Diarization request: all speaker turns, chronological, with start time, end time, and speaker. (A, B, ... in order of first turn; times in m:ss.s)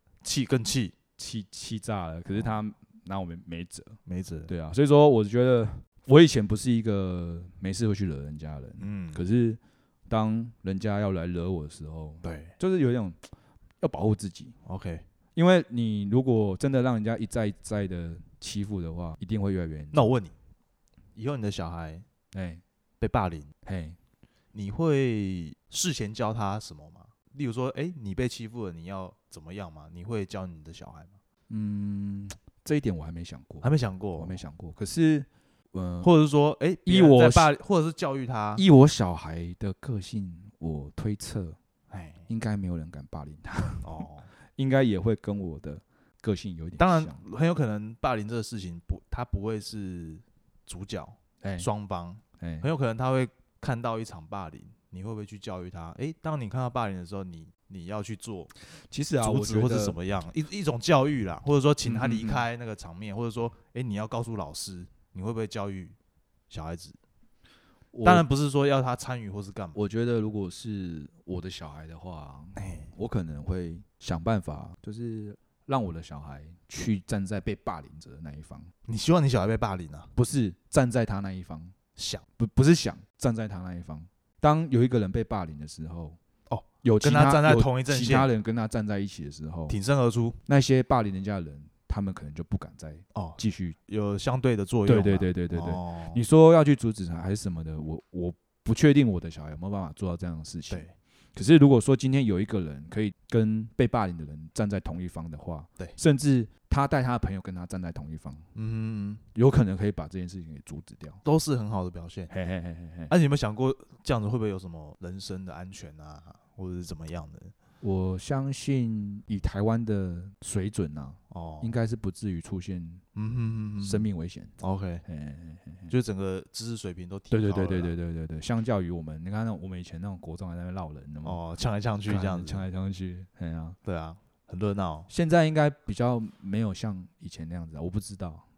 0:00.2-0:01.0 A
0:01.2-0:13.3 B
0:04.0-0:04.5 A
0:08.8-0:09.2 A
0:12.2-0:12.5 A
0:13.8-0:14.6 B
0:14.6-0:15.0 A
0:15.3-0:20.1 B
0:19.9-0:20.3 A
0:21.2-0:22.0 A
0:22.3-0:22.6 B
0:23.0-0:23.5 A
0:23.6-0:24.0 B
0:24.5-0:31.2 A
0:31.5-0:36.1 B
0:33.6-0:34.4 A
0:36.0-0:38.6 A
0:36.8-0:37.5 B
0:38.6-0:41.6 B
0:41.9-0:42.2 A
0:42.3-0:43.9 B
0:43.8-0:44.3 A
0:44.6-0:47.2 B
0:46.8-0:58.5 A
0:51.4-0:51.7 B
0:52.4-0:52.7 B
0:58.6-1:00.0 B
0:59.2-1:06.0 A
1:01.8-1:02.4 B
1:06.5-1:07.0 A
1:07.9-1:08.2 B
1:08.0-1:09.8 A
1:09.7-1:18.7 B
1:12.6-1:12.9 A
1:18.9-1:20.1 A
1:20.1-1:21.7 B
1:22.0-1:22.2 A
1:22.4-1:26.2 B
1:26.5-1:28.3 A
1:26.8-1:29.8 B
1:29.7-1:30.4 A
1:30.4-1:33.8 B
1:33.1-1:36.2 A
1:34.9-1:48.5 B
1:48.5-1:49.2 A
1:49.3-1:51.2 B
1:51.2-1:52.3 A
1:52.3-1:53.1 B
1:53.1-1:57.5 A
1:57.8-2:03.0 B
2:01.3-2:01.7 A
2:03.2-2:04.1 A
2:03.8-2:05.9 B
2:04.6-2:05.0 A
2:05.9-2:07.9 A
2:07.3-2:11.4 B
2:11.2-2:12.6 A
2:12.0-2:13.8 B
2:13.8-2:15.1 A
2:15.1-2:18.4 B